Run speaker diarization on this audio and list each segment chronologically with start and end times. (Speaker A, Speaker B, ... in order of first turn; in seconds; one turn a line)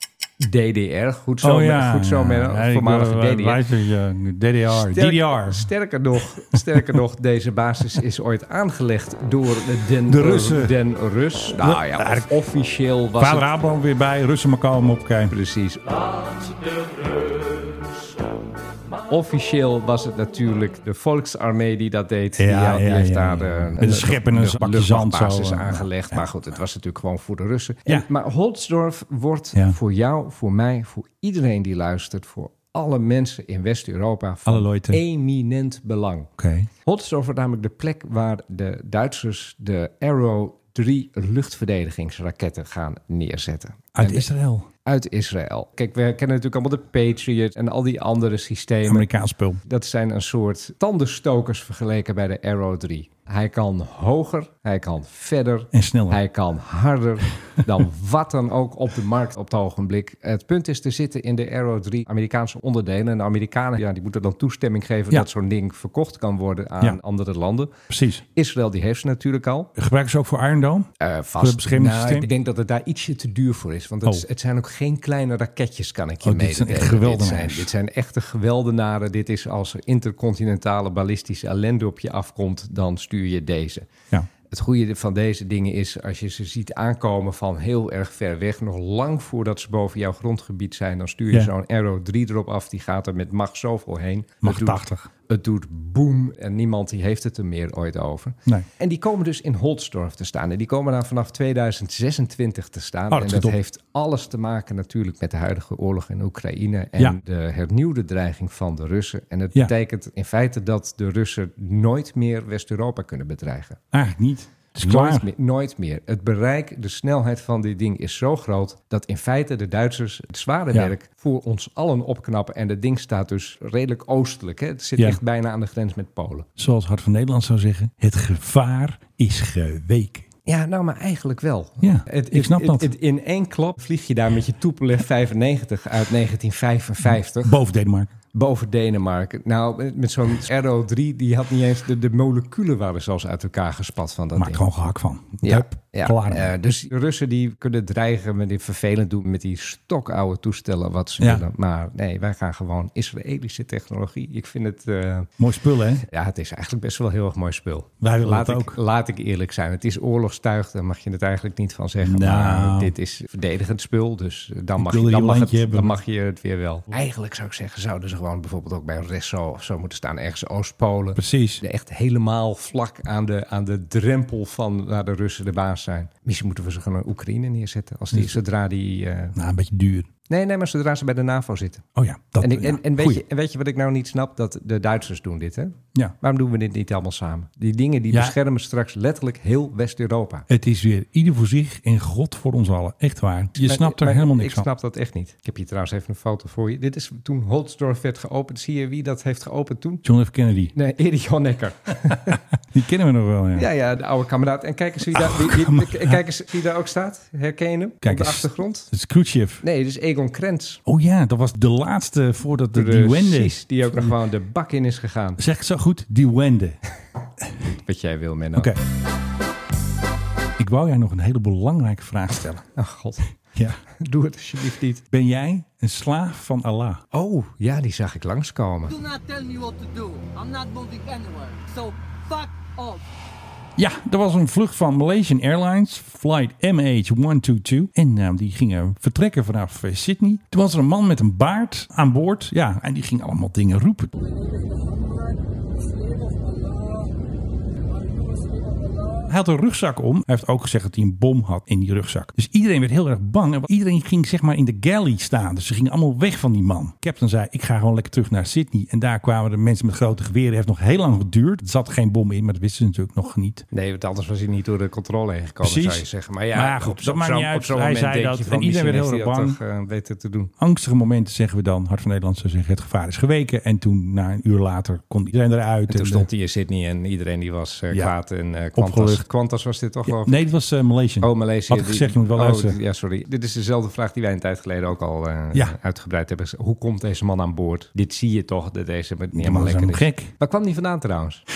Speaker A: 0.4-3.6
Speaker B: 1.4-5.7
Speaker A: 4.7-13.5
Speaker B: 6.5-6.9
Speaker B: 10.1-10.8
Speaker B: 11.5-12.3
Speaker B: 13.2-15.3
Speaker A: 15.3-15.9
Speaker A: 19.1-36.3
Speaker B: 22.4-26.2
Speaker B: 34.5-35.0
Speaker B: 36.4-36.7
Speaker A: 36.8-44.3
Speaker B: 44.0-44.7
Speaker A: 44.9-49.1
Speaker B: 48.9-49.6
Speaker A: 49.6-67.8
Speaker B: 55.7-56.2
Speaker B: 67.9-68.2
Speaker A: 68.3-69.7
Speaker B: 69.8-72.3
Speaker A: 71.0-83.9
Speaker B: 76.2-77.7
Speaker A: 84.5-113.8
Speaker B: 94.4-95.1
Speaker B: 103.1-103.5
Speaker B: 113.9-115.3
Speaker A: 114.8-126.5
Speaker B: 126.6-130.3
Speaker A: 130.5-137.6
Speaker B: 131.8-132.9
Speaker B: 137.4-138.1
Speaker A: 138.3-144.7
Speaker B: 144.4-146.5
Speaker A: 145.4-155.3
Speaker B: 151.2-151.5
Speaker B: 155.4-156.0
Speaker A: 156.1-179.3
Speaker B: 158.0-158.8
Speaker B: 162.0-162.9
Speaker B: 164.8-165.9
Speaker B: 171.2-171.6
Speaker B: 179.3-180.1
Speaker A: 180.3-181.8
Speaker B: 182.0-183.2
Speaker A: 182.4-190.5
Speaker B: 190.5-194.7
Speaker A: 193.6-200.0
Speaker B: 200.0-200.7
Speaker A: 200.8-202.4
Speaker B: 202.3-203.7
Speaker A: 203.6-208.9
Speaker B: 205.1-206.2
Speaker B: 208.0-209.6
Speaker A: 209.6-210.8
Speaker B: 210.9-214.2
Speaker A: 212.8-215.4
Speaker B: 215.4-216.8
Speaker A: 217.8-218.7
Speaker B: 220.6-222.6
Speaker A: 222.8-223.3
Speaker A: 223.9-225.0
Speaker B: 225.1-227.0
Speaker A: 227.1-228.9
Speaker C: 228.9-233.0
Speaker B: 233.8-244.1
Speaker B: 249.3-263.7
Speaker A: 263.7-270.5
Speaker B: 265.6-269.6
Speaker B: 270.6-276.3
Speaker A: 275.9-280.4
Speaker B: 278.8-279.3
Speaker B: 280.1-282.8
Speaker A: 281.2-291.4
Speaker B: 289.3-290.3